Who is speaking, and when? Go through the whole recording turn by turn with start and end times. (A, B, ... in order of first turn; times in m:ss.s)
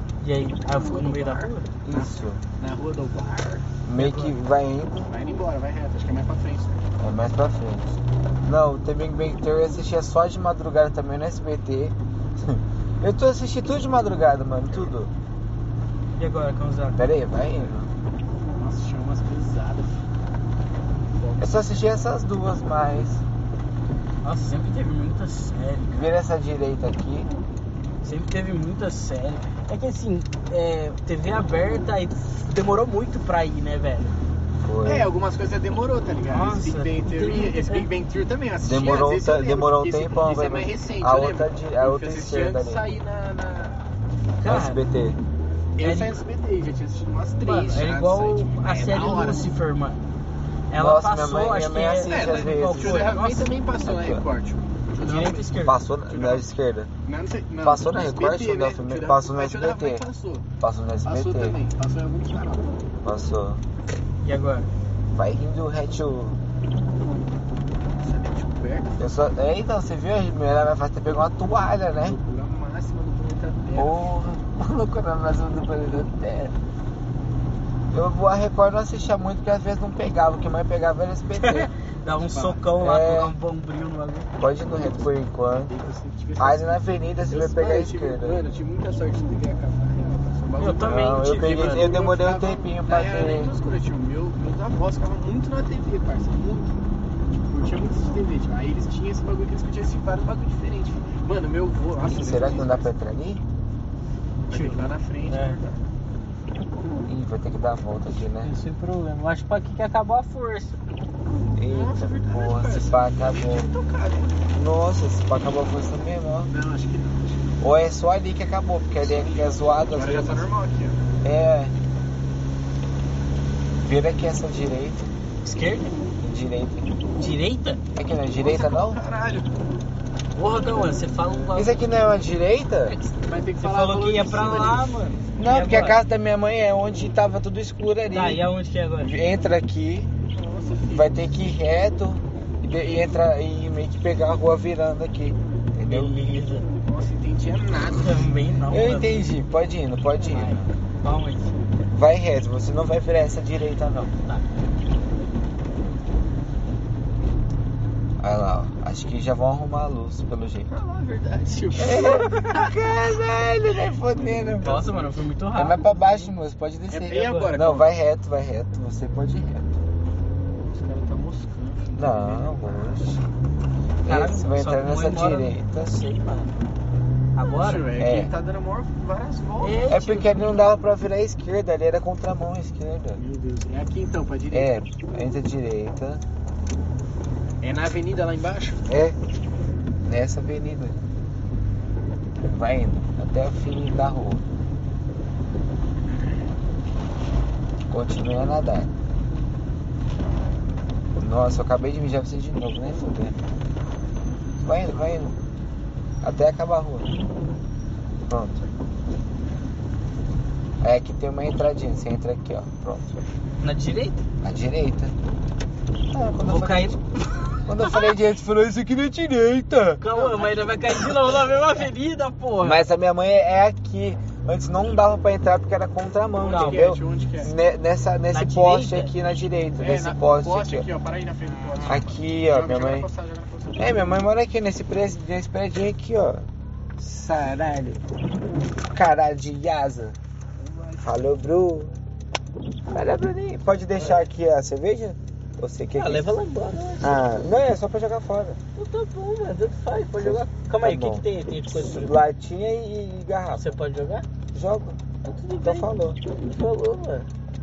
0:00.2-0:01.7 A
0:00.7-0:03.7 B
0:01.8-0:02.4 C
0:03.8-0:05.0 C
0:04.0-0:04.3 A
0:05.1-0:06.8 B
0:07.0-0:15.1 C
0:16.2-0:17.0 A
0:16.9-0:17.9 C
0:18.6-0:20.0 B
0:21.2-0:22.1 B
0:21.4-0:23.2 C
0:24.2-0:26.1 A
0:25.9-0:27.3 C
0:28.0-0:34.2 A
0:34.6-0:35.1 C
0:34.8-0:43.8 B
0:36.3-0:37.9 A
0:38.6-0:42.8 C
0:44.4-0:44.8 A
0:44.4-0:45.2 C
0:45.8-0:49.5 B
0:45.8-0:46.2 A
0:47.4-0:50.1 A
0:50.7-0:53.5 A
0:50.7-0:53.1 C
0:51.8-0:55.6 B
0:53.8-0:54.2 C
0:55.0-0:55.8 A
0:55.6-0:56.9 C
0:56.1-0:56.5 B
0:57.0-1:00.5 B
0:57.6-1:00.0 C
1:00.6-1:01.6 C
1:01.0-1:02.8 B
1:03.0-1:03.6 C
1:04.2-1:04.7 A
1:05.1-1:06.4 C
1:08.0-1:09.1 B
1:09.0-1:12.2 C
1:12.0-1:14.1 B
1:13.8-1:16.6 C
1:17.9-1:21.7 C
1:21.3-1:24.3 A
1:22.2-1:22.6 B
1:22.8-1:23.4 C
1:24.4-1:25.7 C
1:25.5-1:42.9 B
1:26.4-1:28.4 C
1:30.6-1:31.9 A
1:30.8-1:33.5 C
1:42.0-1:43.4 C
1:44.5-1:45.9 B
1:44.5-1:45.6 A
1:47.0-1:48.5 C
1:48.4-1:50.8 A
1:51.6-1:53.7 C
1:51.7-1:54.4 B
1:54.5-1:56.5 C
1:56.5-1:57.6 B
1:57.6-2:00.5 C
1:59.0-2:01.0 B
2:01.2-2:01.7 C
2:03.8-2:05.1 C
2:05.4-2:06.0 A
2:06.2-2:06.9 C
2:07.2-2:07.8 A
2:08.0-2:09.0 C
2:08.4-2:09.5 B
2:10.4-2:11.8 A
2:10.6-2:11.5 B
2:11.5-2:13.0 C
2:12.8-2:16.0 A
2:13.2-2:14.9 B
2:15.4-2:18.4 C
2:18.1-2:19.1 A
2:19.0-2:20.1 C
2:20.3-2:21.4 B
2:20.9-2:26.2 C
2:25.9-2:26.7 A
2:26.8-2:28.6 B
2:27.9-2:29.2 A
2:28.7-2:30.7 C
2:30.2-2:31.6 A
2:31.9-2:34.1 C
2:38.2-2:40.7 C
2:40.7-2:42.7 B
2:41.8-2:49.8 C
2:44.1-2:45.0 B
2:44.6-2:46.3 A
2:46.9-2:47.9 B
2:50.7-2:53.2 B
2:52.0-2:53.2 C
2:54.0-2:56.0 C
2:54.0-2:56.5 A
2:57.4-2:58.0 A
2:57.4-2:59.9 B
2:58.0-2:58.3 C
2:59.6-3:00.5 A
2:59.9-3:03.2 C
3:03.2-3:04.8 B
3:04.5-3:06.2 C
3:07.6-3:08.8 B
3:08.9-3:09.2 C
3:10.0-3:11.0 C
3:12.5-3:14.4 C
3:17.9-3:18.9 C
3:21.2-3:23.4 C
3:24.6-3:25.4 C
3:26.2-3:27.1 C
3:28.3-3:28.6 C
3:30.8-3:33.2 C
3:33.6-3:34.2 A
3:34.4-3:35.1 C
3:36.1-3:37.0 C
3:36.4-3:38.2 A
3:37.7-3:40.1 C
3:40.0-3:42.8 A
3:40.1-3:41.1 B
3:41.0-3:41.2 C
3:42.6-3:50.9 C
3:46.4-3:47.6 B
3:46.4-3:46.9 A
3:48.3-3:49.2 A
3:49.8-3:54.1 B
3:51.9-3:53.1 C
3:53.8-3:56.5 C
3:57.0-3:58.0 B
3:58.9-4:00.2 C
4:00.6-4:01.2 B
4:01.0-4:02.0 C
4:02.9-4:06.4 C
4:04.0-4:04.2 B
4:06.0-4:07.3 A
4:07.0-4:08.6 C
4:08.8-4:12.2 A
4:10.2-4:13.7 C
4:13.5-4:14.3 A
4:14.5-4:16.2 C
4:15.2-4:17.3 A